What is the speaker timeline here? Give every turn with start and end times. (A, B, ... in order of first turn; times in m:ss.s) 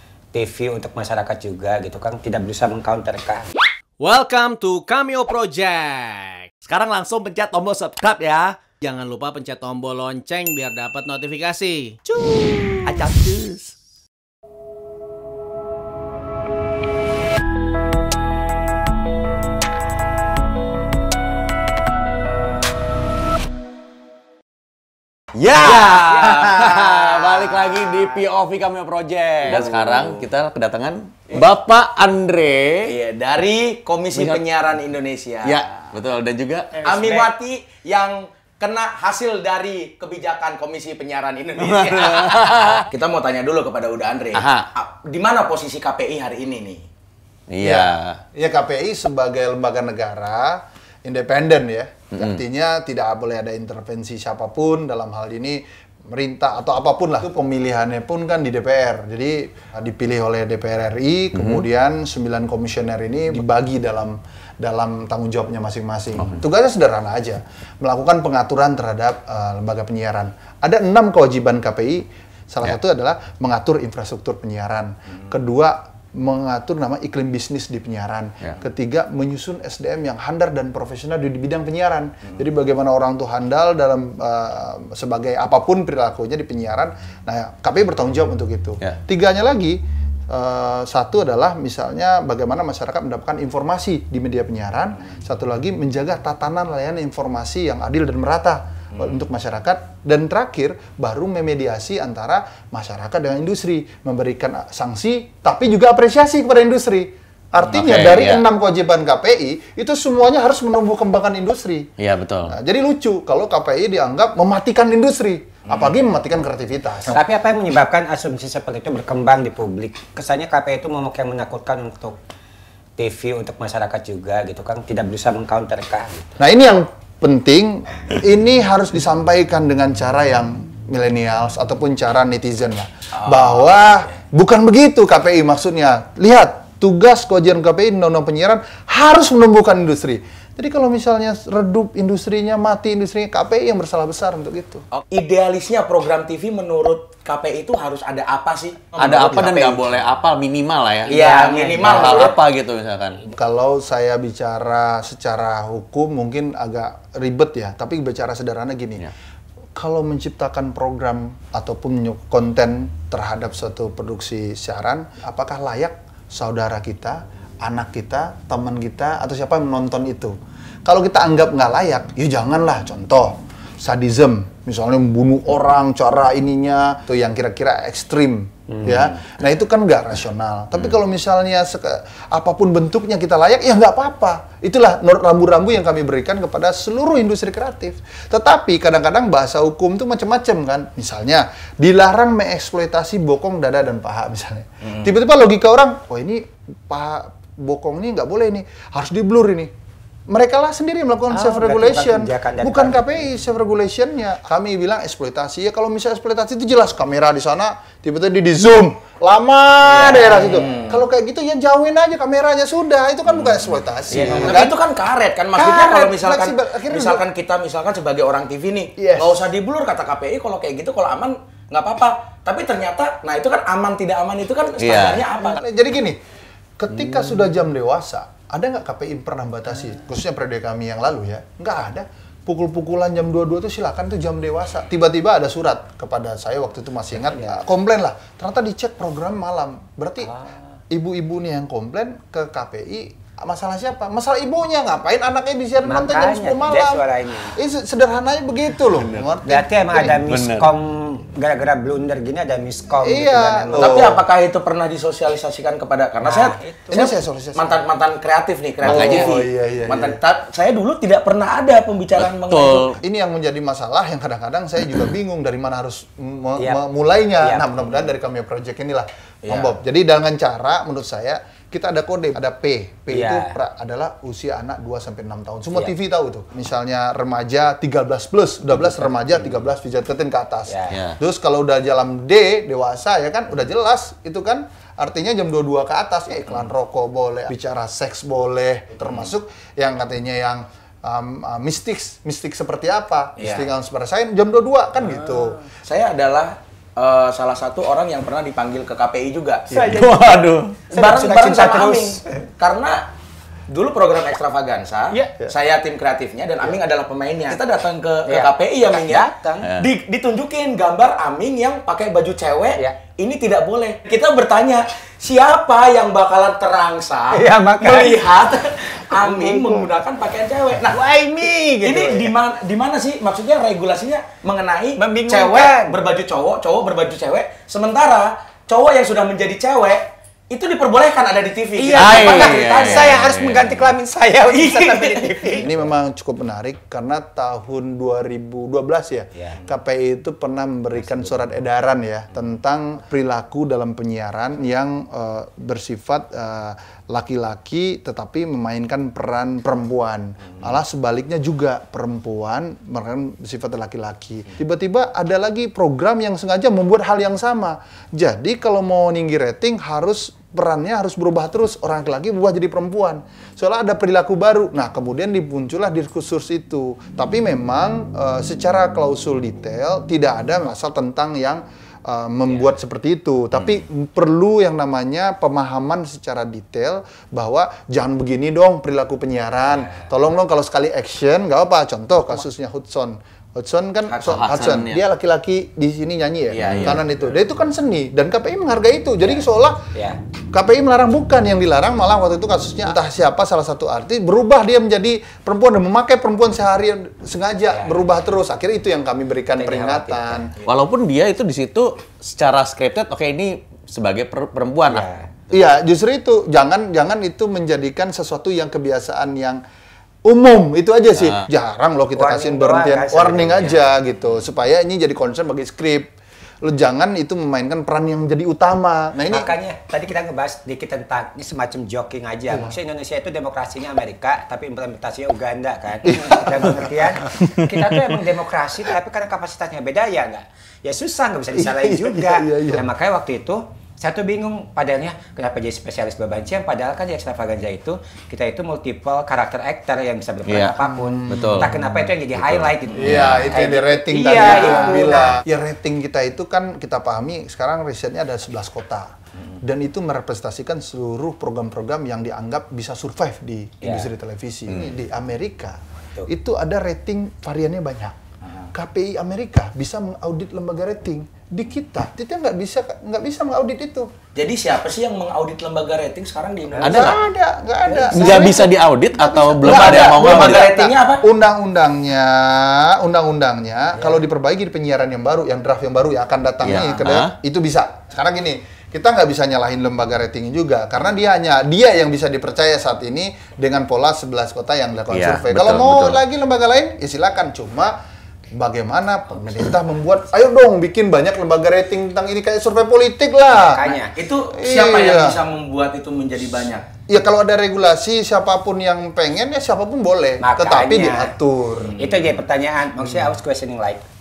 0:00.3-0:03.5 A
0:04.0-0:13.8 B
0:25.4-0:32.9 C
0:25.5-0:28.2 D
0:29.4-0:30.2 D
0:32.9-0:35.8 D
0:34.1-0:34.4 C
0:35.4-0:36.9 C
0:36.8-0:46.8 D
0:41.9-0:42.8 C
0:44.3-0:44.7 C
0:47.5-0:48.2 C
0:47.6-1:51.9 E
0:52.1-0:52.4 C
1:01.3-1:01.7 C
1:47.6-1:48.4 C
1:52.0-1:52.5 C
1:52.5-1:57.2 E
1:57.1-2:02.2 A
2:03.0-2:06.3 A
2:06.4-2:24.8 E
2:13.2-2:14.0 D
2:24.9-2:29.8 D
2:29.0-2:31.2 C
2:29.3-2:29.7 E
2:31.1-2:32.4 D
2:31.1-2:32.0 A
2:31.8-2:33.2 C
2:31.9-2:32.2 E
2:33.3-2:39.1 E
2:39.8-3:19.7 E
3:20.3-3:34.8 E
3:21.3-3:23.2 A
3:29.9-3:31.0 D
3:30.2-3:30.6 A
3:34.1-3:45.6 D
3:34.3-3:34.6 A
3:35.6-3:37.2 E
3:39.0-3:39.4 E
3:44.8-3:45.2 C
3:45.4-3:46.2 E
3:46.8-4:00.3 E
3:57.2-3:57.7 A
4:00.9-4:10.2 E
4:05.8-4:07.6 A
4:09.0-4:09.3 C
4:09.4-4:14.0 A
4:10.3-4:10.7 C
4:13.0-4:14.2 E
4:13.8-4:23.0 D
4:16.2-4:17.1 A
4:16.9-4:17.8 E
4:18.8-4:19.3 C
4:18.8-4:20.2 E
4:22.2-4:23.0 C
4:23.0-4:55.6 E
4:26.6-4:26.8 A
4:27.4-4:28.1 A
4:29.5-4:29.8 D
4:33.1-4:33.5 A
4:38.7-4:39.6 A
4:40.7-4:41.0 A
4:40.9-4:41.2 C
4:49.0-4:49.3 D
4:53.4-4:53.7 D
4:55.9-4:59.7 D
4:59.7-5:02.4 A
4:59.7-5:00.0 E
4:59.9-5:00.8 C
5:00.9-5:03.0 D
5:03.7-5:21.0 D
5:08.3-5:09.7 A
5:17.3-5:19.9 A
5:20.9-5:22.3 A
5:21.8-5:33.2 D
5:25.0-5:26.0 A
5:31.8-5:35.9 A
5:31.9-5:33.9 C
5:34.5-5:35.5 D
5:35.5-6:29.8 E
5:40.9-5:41.6 A
6:19.7-6:20.0 A
6:24.1-6:24.4 D
6:24.3-6:25.0 C
6:26.5-6:27.0 D
6:29.2-6:30.2 A
6:30.5-6:40.5 E
6:37.7-6:38.0 A
6:39.6-6:40.5 A
6:40.7-6:45.1 C
6:44.9-6:45.3 A
6:45.5-6:49.6 E
6:50.3-6:56.1 E
6:52.1-6:53.9 A
6:56.6-6:59.5 E
6:59.2-7:25.4 A
7:06.1-7:06.7 E
7:11.5-7:12.9 E
7:20.5-7:21.8 C
7:20.8-7:21.7 E
7:22.4-7:23.5 C
7:22.9-7:38.2 E
7:33.8-7:34.1 A
7:38.7-7:44.1 E
7:44.4-7:47.2 D
7:46.7-7:47.1 A
7:46.8-7:47.2 C
7:46.8-8:07.9 E
7:47.8-7:48.6 A
7:48.1-7:50.7 C
7:49.6-7:51.2 D
7:56.6-7:57.3 C
8:05.1-8:06.2 C
8:08.5-8:13.9 E
8:13.5-8:14.1 A
8:14.2-8:16.9 D
8:14.6-8:15.4 E
8:17.1-8:22.0 E
8:20.4-8:21.3 A
8:21.8-8:22.4 D
8:21.9-8:24.0 A
8:23.0-8:23.3 E